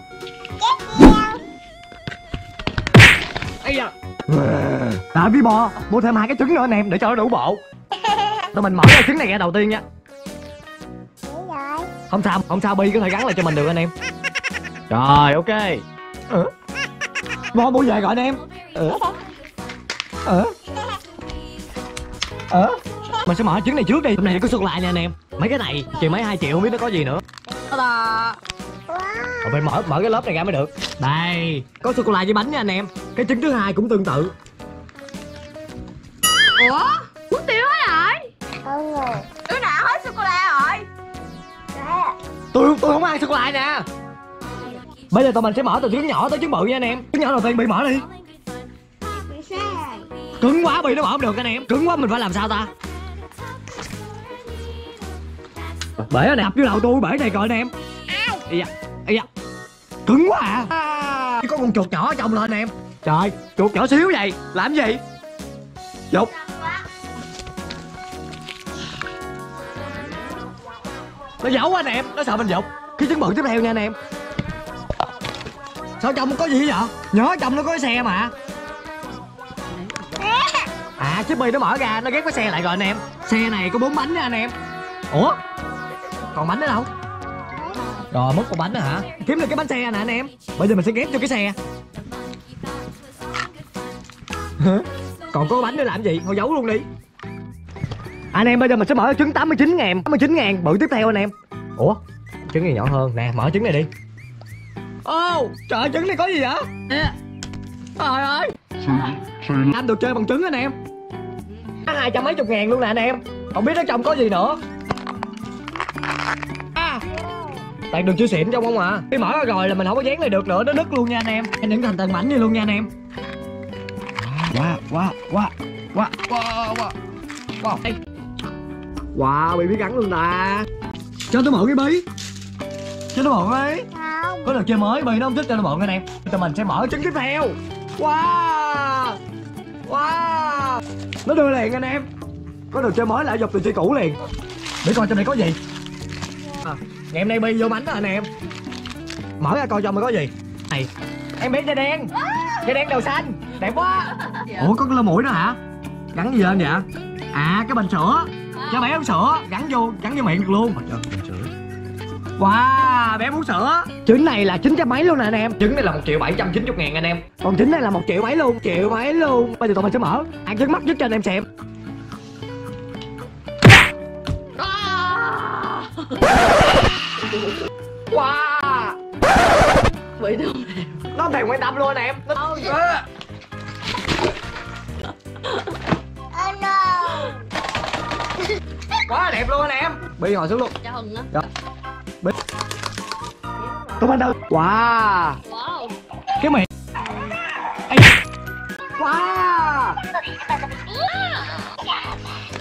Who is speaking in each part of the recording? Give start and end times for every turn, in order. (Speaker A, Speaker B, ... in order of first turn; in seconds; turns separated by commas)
Speaker A: 3.6-7.6, Speaker A: 8.5-9.8, Speaker B: 11.3-11.9, Speaker A: 12.1-13.9, Speaker A: 14.9-16.5, Speaker A: 17.5-19.2, Speaker A: 20.2-20.6, Speaker A: 22.5-28.4, Speaker B: 29.0-29.3, Speaker A: 29.4-34.3, Speaker B: 36.5-40.9, Speaker B: 41.8-42.2, Speaker A: 42.5-43.8, Speaker A: 45.1-48.1, Speaker B: 49.1-50.1, Speaker A: 50.4-52.7, Speaker A: 56.0-57.7, Speaker A: 58.2-59.3, Speaker A: 60.1-65.0, Speaker A: 66.1-66.4, Speaker A: 71.4-74.0, Speaker A: 76.0-78.3, Speaker A: 81.0-84.5, Speaker A: 85.1-85.4, Speaker A: 86.3-86.9, Speaker A: 88.1-91.6, Speaker A: 94.6-96.9, Speaker A: 98.3-103.9, Speaker A: 105.0-107.2, Speaker A: 108.0-110.8, Speaker A: 111.8-114.6, Speaker A: 116.8-117.1, Speaker A: 117.9-122.9, Speaker A: 124.2-127.0, Speaker A: 127.6-128.0, Speaker A: 129.1-130.7, Speaker A: 131.3-132.1, Speaker A: 133.1-139.2, Speaker B: 134.1-134.4, Speaker A: 139.9-142.1, Speaker A: 142.7-144.2, Speaker A: 144.8-145.6, Speaker A: 146.6-148.3, Speaker A: 149.4-155.6, Speaker A: 156.1-161.5, Speaker A: 162.4-171.5, Speaker A: 174.6-175.9, Speaker A: 178.1-179.0, Speaker B: 180.2-181.0, Speaker A: 181.0-183.1, Speaker B: 186.3-187.4, Speaker A: 188.9-191.5, Speaker B: 190.9-191.2, Speaker A: 194.0-195.4, Speaker B: 195.5-195.9, Speaker A: 196.3-196.7, Speaker A: 197.8-198.1, Speaker A: 199.0-200.0, Speaker B: 201.0-201.6